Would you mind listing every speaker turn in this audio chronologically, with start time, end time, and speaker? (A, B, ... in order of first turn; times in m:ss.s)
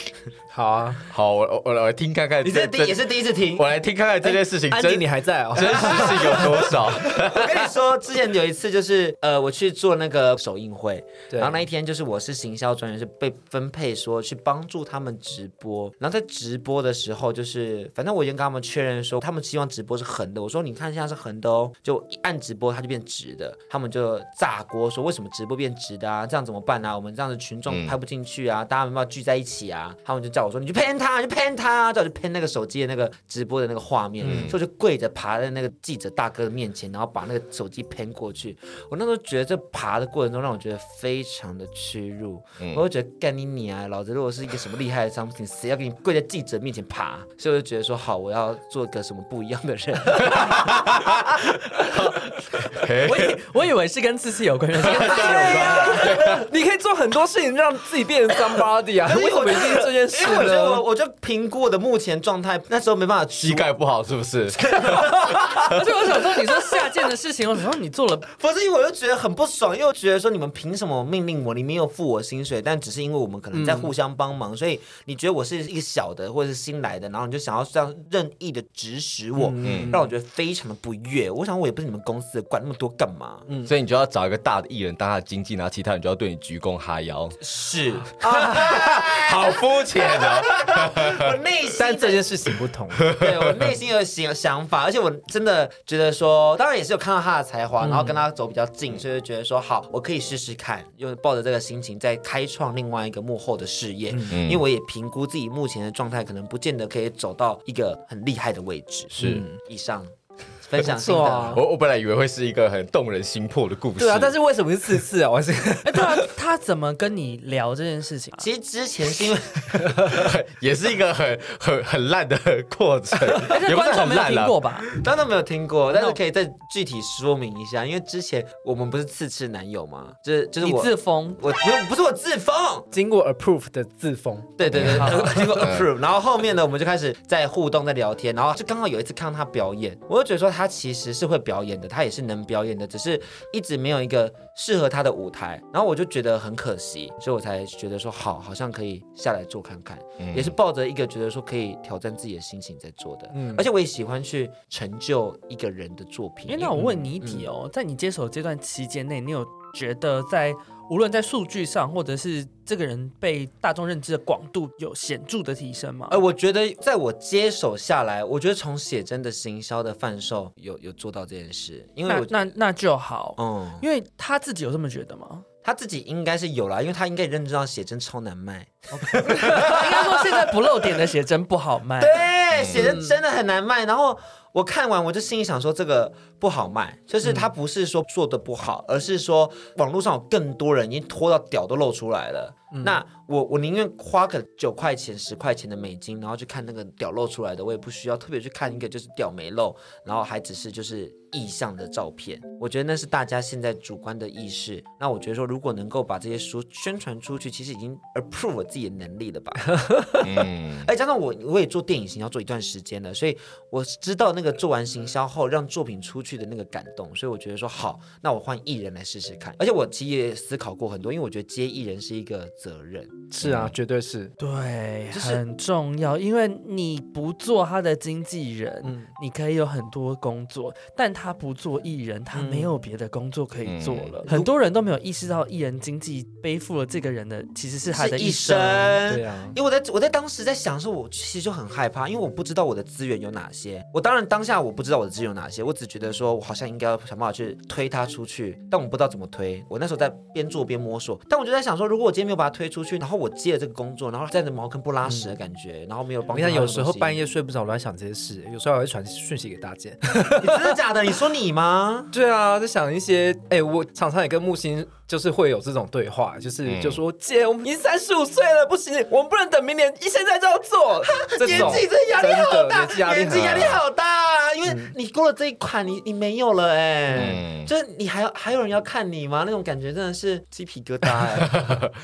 0:00.5-0:01.0 A
0:01.1-0:07.6 B
0:02.4-0:03.7 C
0:04.2-0:07.4 A
0:05.6-0:51.8 C
0:11.3-0:11.6 A
0:27.7-0:27.9 B
0:34.2-0:34.6 A
0:34.2-0:34.6 B
0:50.3-0:51.2 B
0:51.8-0:53.4 B
0:53.0-0:56.0 D
0:54.9-1:00.8 A
0:55.0-0:56.5 B
0:55.1-0:56.4 C
0:59.0-1:03.7 C
1:03.4-1:05.4 B
1:04.5-1:06.8 C
1:05.5-1:08.2 D
1:08.3-1:23.5 C
1:13.5-1:13.9 A
1:19.4-1:20.1 A
1:19.6-1:19.9 B
1:23.6-1:27.4 B
1:27.4-1:32.2 C
1:28.2-1:29.0 A
1:28.4-1:31.3 B
1:31.7-1:33.2 A
1:33.0-1:33.4 B
1:33.1-1:51.6 C
1:37.8-1:38.2 A
1:44.1-1:44.4 A
1:44.3-1:44.6 B
1:49.2-1:49.4 B
1:49.2-1:49.5 A
1:50.8-1:51.6 A
1:51.5-1:54.4 B
1:54.0-1:56.3 A
1:55.8-1:58.5 D
1:58.4-2:00.2 C
1:59.9-2:04.7 B
2:03.4-2:05.0 D
2:04.9-2:12.9 C
2:10.6-2:11.4 D
2:12.9-2:15.4 A
2:14.6-2:37.5 C
2:14.7-2:15.9 B
2:14.7-2:15.3 D
2:30.2-2:30.5 B
2:33.3-2:33.6 A
2:36.5-2:46.2 D
2:46.1-2:52.4 C
2:52.1-2:55.4 D
2:53.4-2:53.8 C
2:55.6-3:00.6 C
2:59.2-2:59.8 A
2:59.4-3:02.3 D
3:02.0-3:43.3 C
3:02.5-3:02.9 B
3:02.7-3:03.1 A
3:07.2-3:07.5 A
3:29.7-3:30.2 A
3:30.2-3:30.9 B
3:43.3-3:44.3 A
3:43.4-3:43.7 B
3:44.4-3:59.0 D
3:48.8-3:49.1 A
3:52.3-3:52.7 A
3:53.6-3:54.1 B
3:57.9-4:17.2 C
3:59.0-3:59.6 A
4:15.0-4:15.3 A
4:16.3-4:20.8 A
4:20.2-4:22.1 C
4:22.1-4:33.8 A
4:26.6-4:27.0 B
4:31.0-4:41.8 C
4:33.3-4:33.8 B
4:34.6-4:34.9 A
4:37.1-4:37.7 B
4:41.5-4:41.8 B